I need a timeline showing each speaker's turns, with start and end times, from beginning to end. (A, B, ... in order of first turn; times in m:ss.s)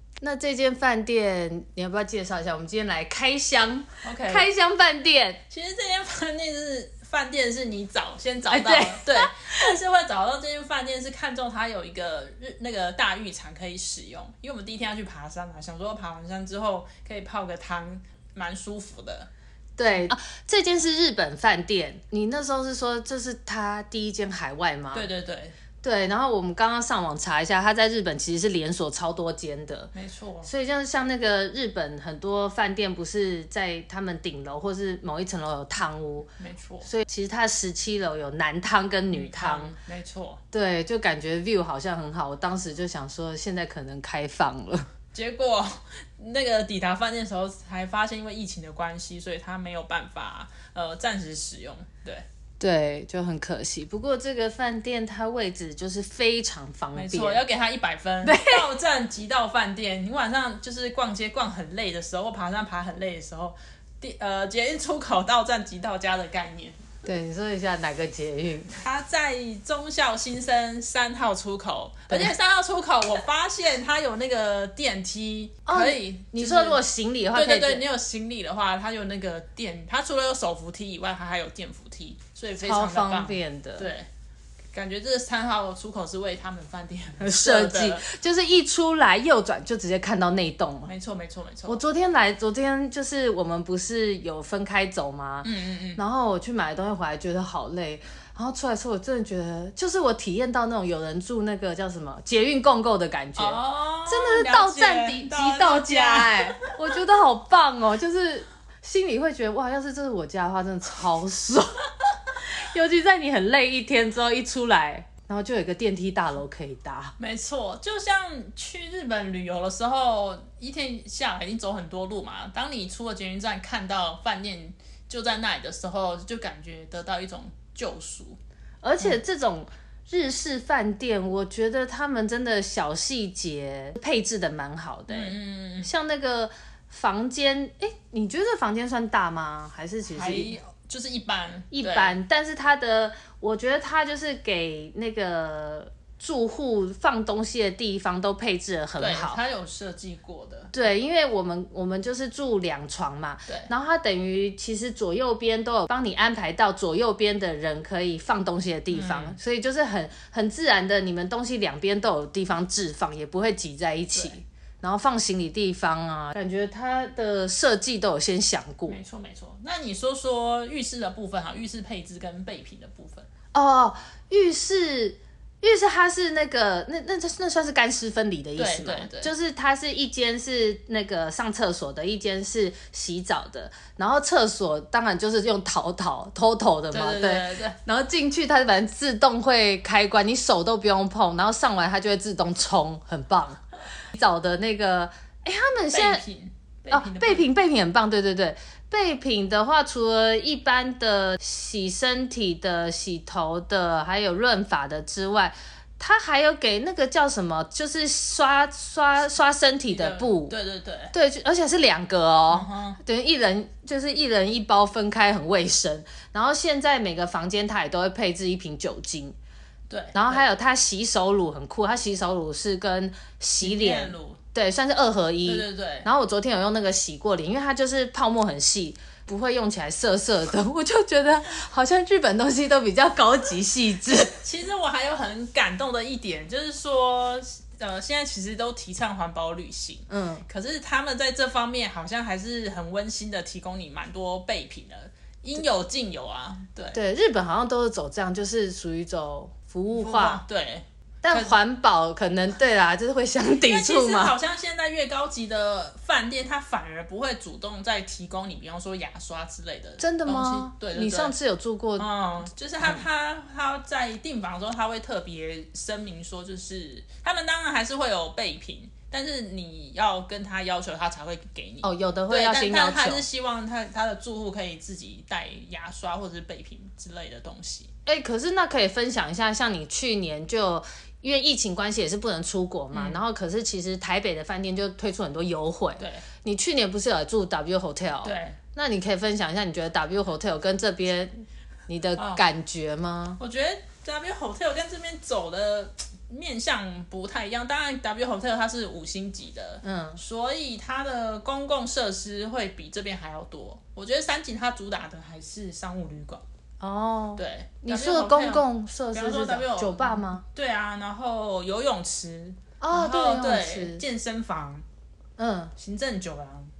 0:00.2-0:05.4 A
0:04.0-0:04.5 B
0:05.5-0:19.3 B
0:08.5-0:09.7 A
0:19.8-0:25.1 A
0:24.9-0:25.6 B
0:25.8-0:29.9 A
0:29.9-0:30.5 B
0:30.4-0:39.7 A
0:36.4-0:36.9 B
0:39.1-0:40.4 B
0:40.5-0:44.9 A
0:45.1-0:52.2 B
0:52.6-0:57.4 A
0:57.0-1:06.8 B
0:58.2-0:58.7 A
1:07.0-1:08.8 A
1:08.8-1:24.1 B
1:12.1-1:12.4 A
1:15.7-1:17.8 A
1:22.6-1:23.9 A
1:24.7-1:28.1 B
1:27.2-1:30.9 A
1:30.9-1:31.8 B
1:31.7-1:51.8 A
1:35.4-1:36.0 B
1:43.4-1:46.7 B
1:52.4-1:57.1 A
1:57.2-2:08.4 B
2:08.8-2:20.6 A
2:15.1-2:15.9 B
2:20.1-2:22.2 B
2:21.7-2:29.4 A
2:29.0-2:30.7 B
2:30.7-2:49.0 A
2:38.9-2:39.4 B
2:48.9-2:53.3 B
2:53.5-3:13.6 A
2:58.6-2:59.3 B
3:06.9-3:07.8 B
3:14.1-3:16.2 A
3:15.9-3:17.5 B
3:16.9-3:30.6 A
3:29.9-3:31.1 B
3:31.1-3:39.4 A
3:32.5-3:33.0 B
3:39.9-3:40.5 B
3:40.1-3:54.4 A
3:43.6-3:44.4 B
3:45.5-3:46.1 B
3:54.4-4:07.0 B
4:00.1-4:00.4 A
4:06.9-4:10.4 A
4:09.9-4:11.6 B
4:11.2-4:14.4 A
4:13.5-4:21.4 B
4:20.0-4:22.1 A
4:22.0-4:37.9 B
4:31.8-4:33.2 A
4:38.1-4:51.3 A
4:42.9-4:43.2 B
4:46.0-4:46.3 B
4:48.2-4:48.6 B
4:51.9-4:53.4 A
4:52.2-4:52.4 B
4:53.4-5:06.4 B
4:59.8-5:00.2 A
5:06.8-5:10.4 A
5:07.4-5:14.8 B
5:12.8-5:14.0 A
5:15.4-5:15.7 A
5:15.8-5:16.7 B